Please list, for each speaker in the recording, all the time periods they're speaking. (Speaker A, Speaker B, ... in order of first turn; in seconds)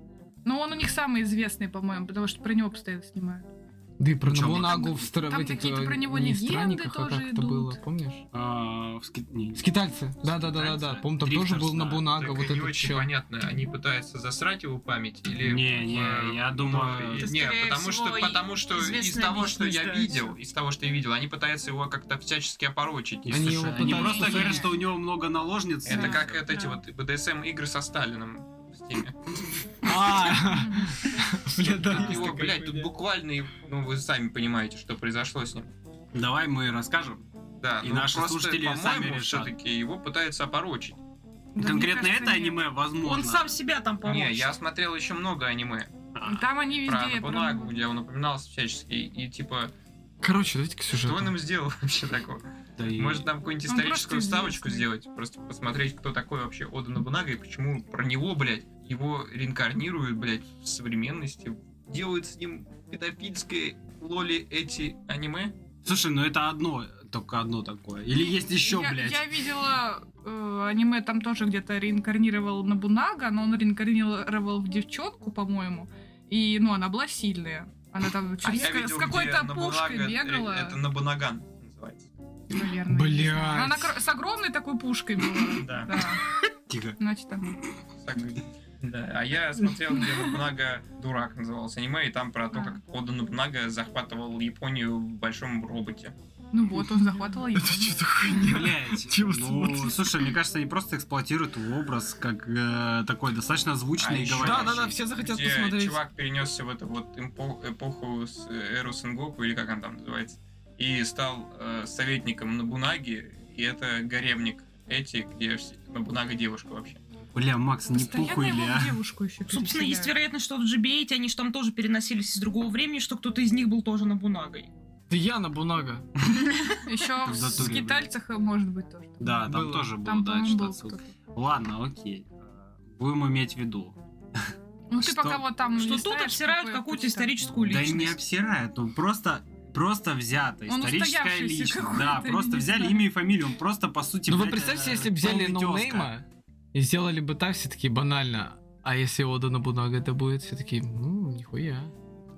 Speaker A: 0.4-3.5, 4.6-7.8, 23.9-24.6, 25.9-26.2, 30.5-31.0, 41.5-42.5, 46.2-47.7, 53.7-54.9, 68.6-80.8, 82.5-86.2, 87.0-87.5, 96.5-98.1, 117.9-120.2, 126.7-129.4, 130.0-131.1, 134.9-137.3, 140.7-143.1
Speaker B: 4.0-8.2, 9.6-13.1, 23.3-24.6, 29.8-32.9, 50.2-51.3, 82.9-83.9, 97.5-100.0, 104.3-106.0, 125.1-126.1, 129.4-129.9, 144.3-151.9
Speaker C: 4.2-5.0, 8.3-12.2, 15.4-17.3, 23.3-26.4, 31.9-32.3, 36.1-37.2, 37.8-39.5, 41.6-43.6, 46.1-46.5, 52.8-53.3, 65.8-69.3, 86.7-87.0, 98.4-105.0, 117.3-119.0, 127.2-128.1, 129.2-135.4, 137.6-146.1
Speaker D: 12.2-24.6, 25.8-30.4, 31.5-35.7, 37.6-41.0, 44.0-45.9, 46.7-49.7, 50.9-65.5, 78.4-82.1, 85.5-86.0, 88.0-96.1, 104.0-117.0
Speaker E: 17.3-20.0, 41.7-42.3, 43.0-44.5, 119.5-124.7, 135.7-138.2